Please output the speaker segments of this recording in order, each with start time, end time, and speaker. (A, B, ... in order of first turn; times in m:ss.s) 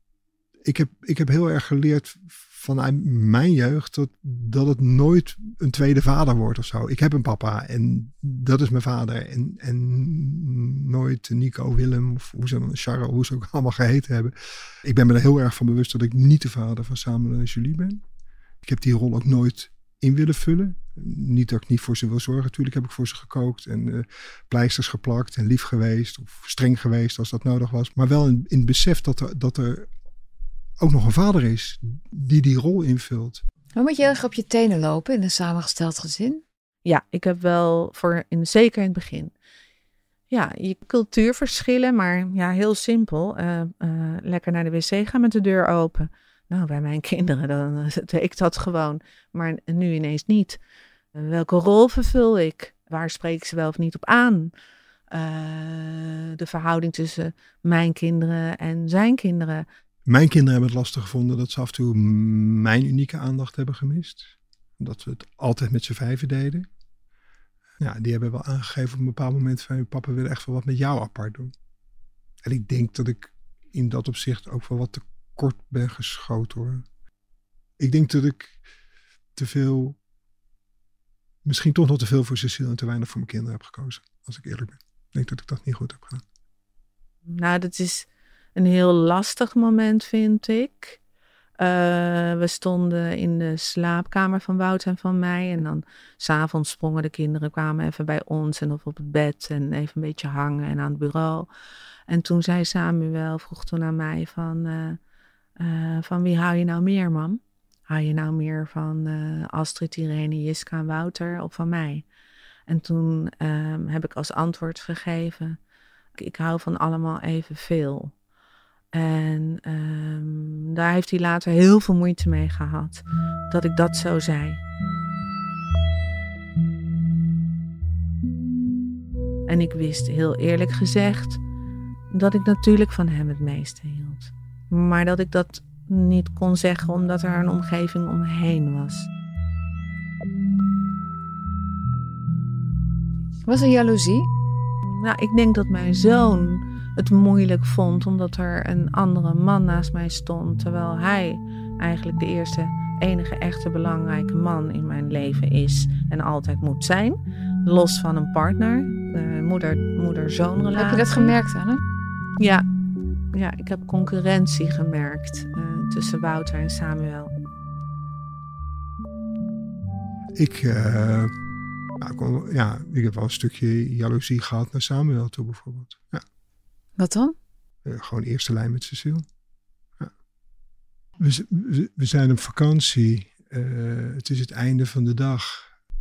0:00.6-0:14.3 A
0:14.8-0:18.0 A
0:18.6-0:29.9 A
0:30.8-0:33.4 A
0:33.8-0:36.4 B
0:36.9-0:39.3 C
0:40.3-0:50.5 C
0:51.2-0:54.5 C
0:55.2-0:59.6 C
1:00.1-1:06.7 A
1:07.8-1:11.5 A
1:12.4-1:16.8 A
1:17.8-1:18.6 A
1:19.4-1:20.0 A
1:21.4-1:26.2 A
1:27.3-1:28.0 C
1:28.6-1:30.9 C
1:31.6-1:41.4 C
1:42.1-1:44.9 C
1:45.6-1:47.3 C
1:47.9-1:52.0 C
1:52.7-1:55.5 C
1:56.2-1:58.1 C
1:59.0-2:03.0 C
2:03.5-2:04.6 C
2:09.5-2:11.4 C
2:12.1-2:19.0 C
2:23.5-2:24.3 B
2:25.0-2:41.3 C
2:40.7-2:41.8 B
2:42.4-2:42.6 C
2:43.3-2:47.3 C
2:50.4-2:51.3 A
2:52.0-2:56.2 A
2:57.0-2:57.3 B
2:57.8-2:59.2 A
3:01.2-3:05.7 A